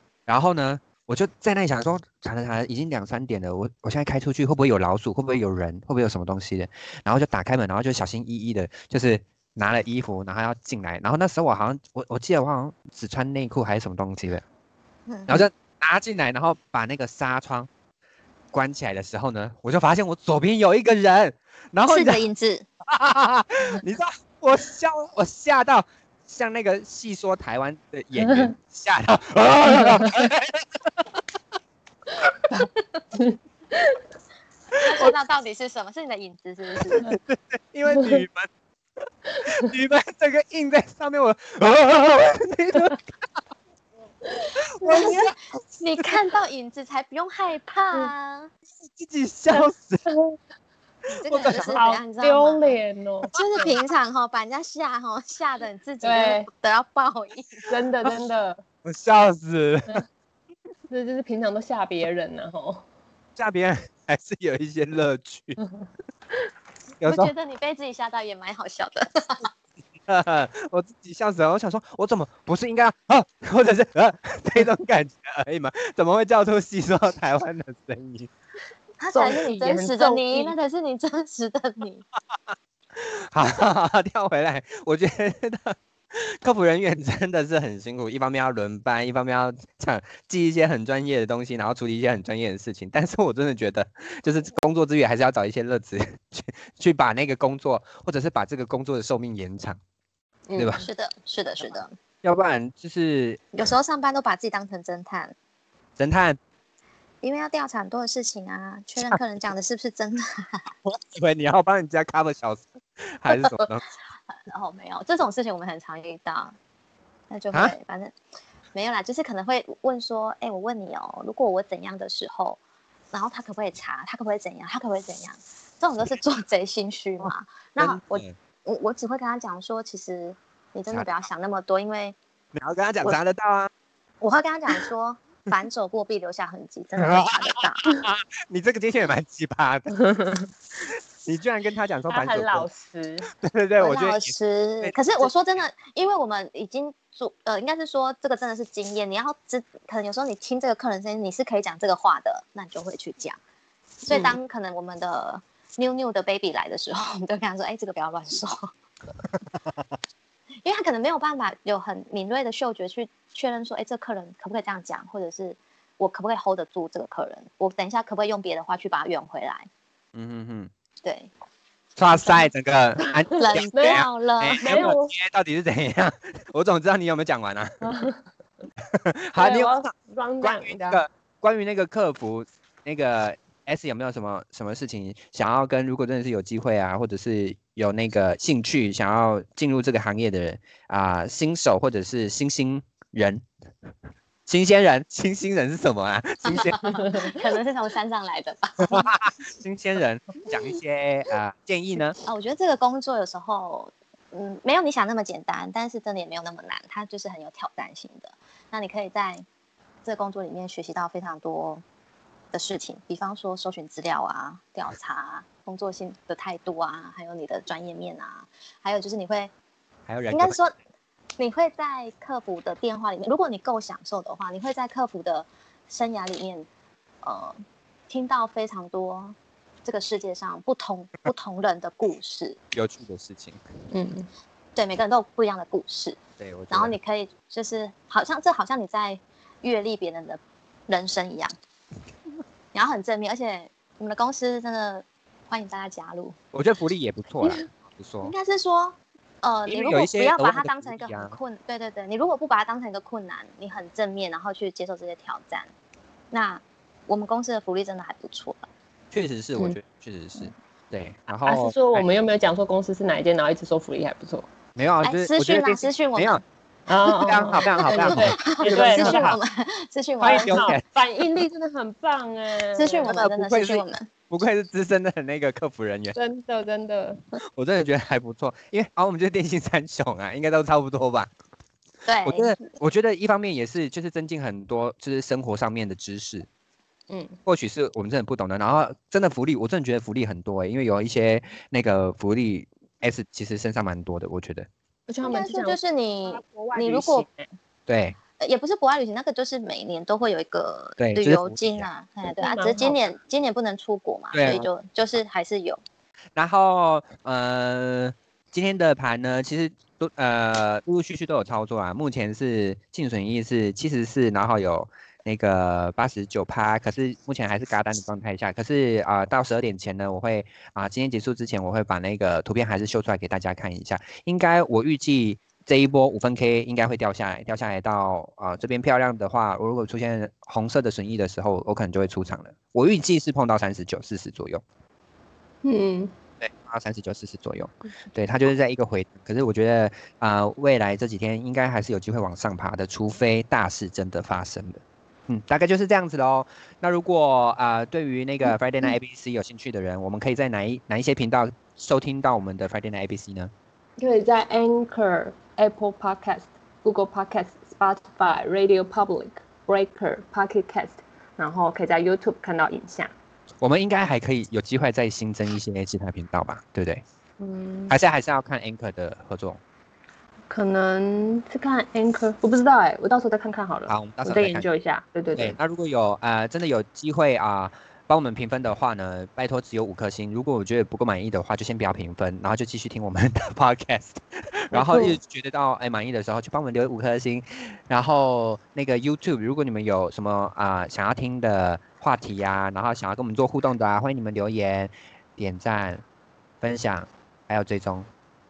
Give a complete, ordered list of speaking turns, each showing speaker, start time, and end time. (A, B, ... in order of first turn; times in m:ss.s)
0:00.3-0:14.4 A
0:15.1-0:15.4 B
0:15.3-0:17.7 A
0:18.5-0:22.2 A
0:21.9-0:22.6 B
0:22.9-0:31.2 A
0:28.2-0:28.5 C
0:29.6-0:30.3 C
0:33.1-0:34.0 C
0:34.8-0:37.1 B
0:36.9-0:38.5 A
0:39.4-0:43.2 A
0:44.2-0:45.2 C
0:44.7-0:46.1 A
0:44.8-0:48.5 B
0:48.8-0:50.0 A
0:49.5-0:50.4 C
0:51.1-0:52.8 B
0:51.2-0:51.8 A
0:51.5-0:53.6 C
0:53.3-0:57.6 B
0:56.0-0:56.5 C
0:57.7-0:58.6 C
0:58.8-1:00.0 A
1:00.9-1:02.8 C
1:03.4-1:05.6 A
1:05.6-1:05.9 C
1:07.0-1:07.3 A
1:07.0-1:09.5 B
1:10.0-1:18.3 A
1:19.0-1:22.0 B
1:19.1-1:20.5 C
1:22.9-1:39.8 A
1:40.5-1:40.8 C
1:40.6-1:40.8 A
1:40.8-1:41.9 B
1:42.2-1:43.4 A
1:43.5-1:45.3 B
1:46.0-1:46.4 A
1:47.2-1:50.7 B
1:50.8-1:53.8 A
1:53.3-1:53.7 B
1:54.5-1:56.5 B
1:57.3-1:58.1 B
1:58.7-2:02.6 B
2:03.1-2:12.2 B
2:07.8-2:08.3 A
2:12.5-2:13.7 A
2:14.2-2:17.9 B
2:17.0-2:20.0 A
2:20.0-2:20.5 C
2:21.2-2:22.7 A
2:22.1-2:23.3 C
2:23.3-2:25.3 A
2:23.8-2:33.4 B
2:34.0-2:38.7 B
2:40.6-2:49.7 B
2:50.1-2:50.7 A
2:51.0-2:51.3 B
2:52.0-2:57.8 A
2:53.3-2:54.0 C
2:53.4-2:55.0 B
2:54.6-2:55.1 C
2:57.8-2:58.2 C
2:58.8-2:59.9 A
2:59.4-3:01.0 C
3:00.4-3:13.4 A
3:14.5-3:16.8 A
3:16.4-3:19.1 B
3:16.8-3:17.4 C
3:18.8-3:22.2 A
3:22.2-3:29.4 B
3:30.0-3:31.8 B
3:32.5-3:39.5 B
3:40.1-3:40.6 A
3:40.3-3:40.7 B
3:41.4-3:46.7 B
3:47.2-3:52.6 B
3:52.7-3:53.6 A
3:53.9-3:54.3 C
3:54.8-4:01.5 B
3:56.4-3:56.9 A
4:02.7-4:06.4 B
4:06.5-4:08.3 A
4:07.4-4:07.7 C
4:08.2-4:15.7 B
4:09.7-4:11.4 A
4:16.3-4:18.7 B
4:19.1-4:22.1 A
4:21.4-4:24.5 C
4:24.8-4:26.4 A
4:25.0-4:26.4 B
4:26.9-4:29.4 C
4:27.0-4:29.4 A
4:27.7-4:30.6 B
4:30.2-4:33.1 C
4:30.3-4:30.8 A
4:32.7-4:34.1 B
4:33.0-4:36.2 A
4:36.1-4:37.2 C
4:37.5-4:41.3 A
4:42.0-4:42.6 B
4:42.2-4:46.5 A
4:47.1-4:47.4 C
4:47.4-4:54.7 A
4:55.1-4:57.5 C
4:55.2-4:57.2 B
4:57.9-4:58.2 A
4:58.4-5:05.8 B
5:01.0-5:01.9 A
5:02.2-5:03.0 C
5:04.3-5:04.7 A
5:06.4-5:34.6 A
5:35.6-5:36.1 C
5:36.4-5:53.5 A
5:54.0-6:03.1 C
6:03.6-6:07.0 A
6:07.4-6:07.9 C
6:07.9-6:09.6 A
6:10.5-6:15.6 C
6:13.9-6:14.7 A
6:15.4-6:36.0 A
6:24.7-6:25.2 C
6:36.6-6:38.1 A